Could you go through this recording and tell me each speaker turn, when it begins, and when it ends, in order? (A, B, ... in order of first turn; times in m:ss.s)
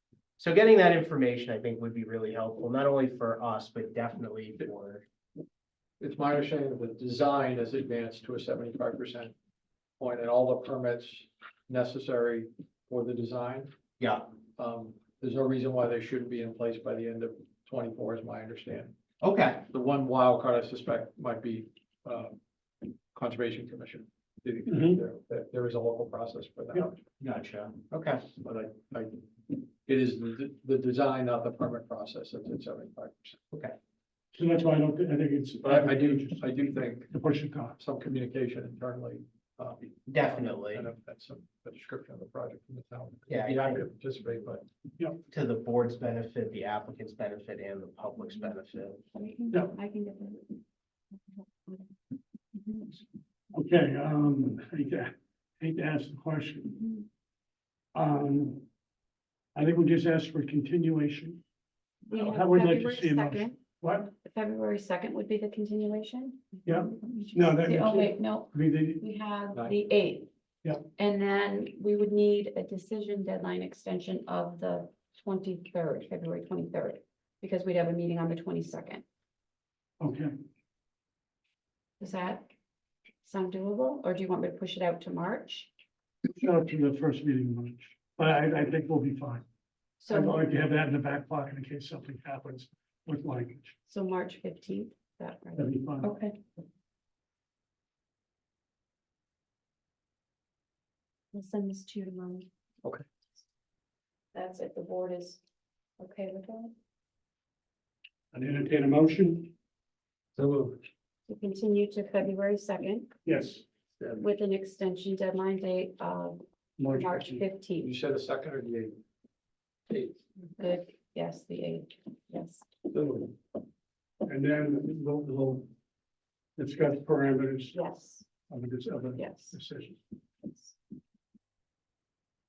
0:00.4-0:05.0 A
0:06.0-0:09.3 B
0:10.0-0:13.7 B
0:14.0-0:14.2 A
0:14.6-0:19.0 B
0:19.2-0:19.6 A
0:19.7-0:22.4 B
0:23.1-0:27.0 B
0:24.7-0:25.0 C
0:27.2-0:28.2 A
0:28.2-0:29.2 B
0:29.8-0:33.4 B
0:34.3-0:36.6 C
0:35.6-0:37.2 B
0:37.1-0:37.8 C
0:37.8-0:44.6 B
0:40.1-0:40.9 A
0:43.3-0:43.8 A
0:45.3-0:49.0 A
0:49.1-0:52.0 D
0:52.5-0:53.0 D
0:53.5-0:56.8 C
0:56.7-0:57.1 D
0:57.9-0:58.7 C
0:59.6-1:01.4 C
1:02.1-1:10.3 D
1:02.1-1:04.1 C
1:06.6-1:09.0 C
1:09.5-1:09.8 B
1:11.0-1:19.0 D
1:20.0-1:20.3 C
1:22.0-1:22.5 D
1:23.2-1:25.7 D
1:26.4-1:29.4 C
1:30.0-1:30.5 D
1:30.1-1:33.8 C
1:33.9-1:36.4 D
1:35.6-1:36.1 C
1:41.3-1:42.5 D
1:44.3-1:45.4 D
1:46.0-1:46.7 D
1:48.3-1:49.5 C
1:50.4-1:50.7 B
1:51.3-1:53.1 D
1:53.3-1:53.6 C
1:54.2-1:57.9 D
1:56.8-1:57.4 C
1:57.8-1:59.0 B
1:59.9-2:00.2 B
2:00.6-2:02.7 D
2:02.9-2:03.3 B
2:04.2-2:05.7 C
2:06.6-2:07.8 C
2:07.8-2:08.3 D
2:08.5-2:10.0 C
2:09.2-2:09.6 D